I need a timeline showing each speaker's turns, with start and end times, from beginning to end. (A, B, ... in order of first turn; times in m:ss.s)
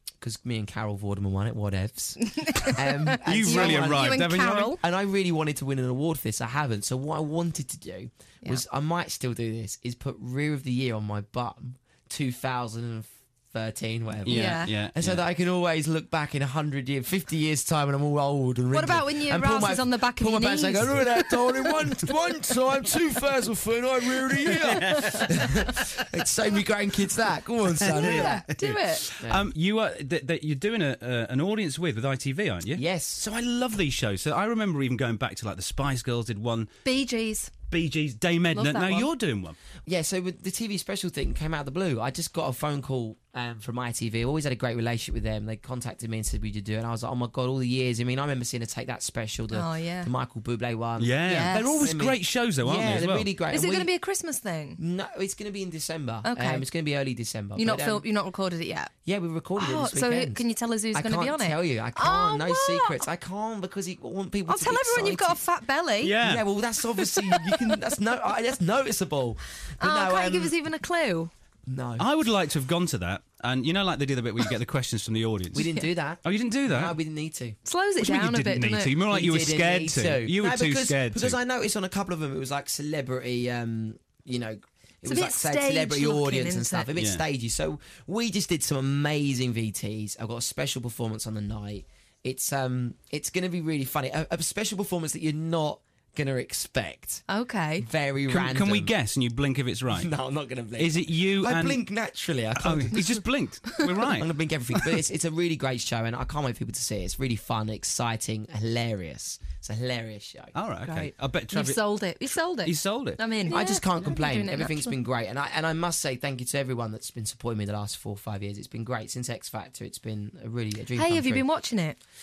0:00.2-0:28.5 A
0:02.2-0:04.8 B
0:03.2-0:04.7 C
0:14.2-0:15.2 C
0:14.3-0:14.7 B
0:18.7-0:21.4 B
0:24.4-0:25.4 C
0:27.7-0:36.7 C
0:27.9-0:29.0 B
0:29.2-0:29.5 A
0:32.7-0:33.2 A
0:36.8-0:37.5 B
0:37.7-0:39.6 C
0:38.5-0:39.1 B
0:39.8-0:53.9 A
0:49.5-0:50.1 B
0:51.0-0:53.3 C
0:51.2-0:51.9 B
0:53.5-0:54.8 B
0:54.8-0:58.0 A
0:56.2-0:56.7 B
0:57.6-0:58.9 B
0:59.0-1:05.4 A
0:59.6-1:03.0 B
1:04.5-1:06.2 B
1:06.0-1:06.5 C
1:06.2-1:10.6 A
1:07.1-1:07.5 B
1:09.8-1:11.3 B
1:11.7-1:12.1 A
1:12.0-1:15.7 C
1:15.5-1:17.6 A
1:16.2-1:17.0 C
1:17.6-1:18.9 B
1:18.0-1:21.4 C
1:19.1-1:37.2 A
1:25.1-1:26.9 B
1:27.0-1:27.2 C
1:37.3-1:37.9 B
1:37.8-1:38.9 A
1:38.3-1:40.1 C
1:39.9-1:43.2 A
1:40.8-1:41.8 C
1:42.6-1:44.3 C
1:44.0-1:50.6 A
1:50.6-1:53.2 C
1:50.8-1:54.9 B
1:53.5-2:01.5 A
2:01.0-2:02.0 B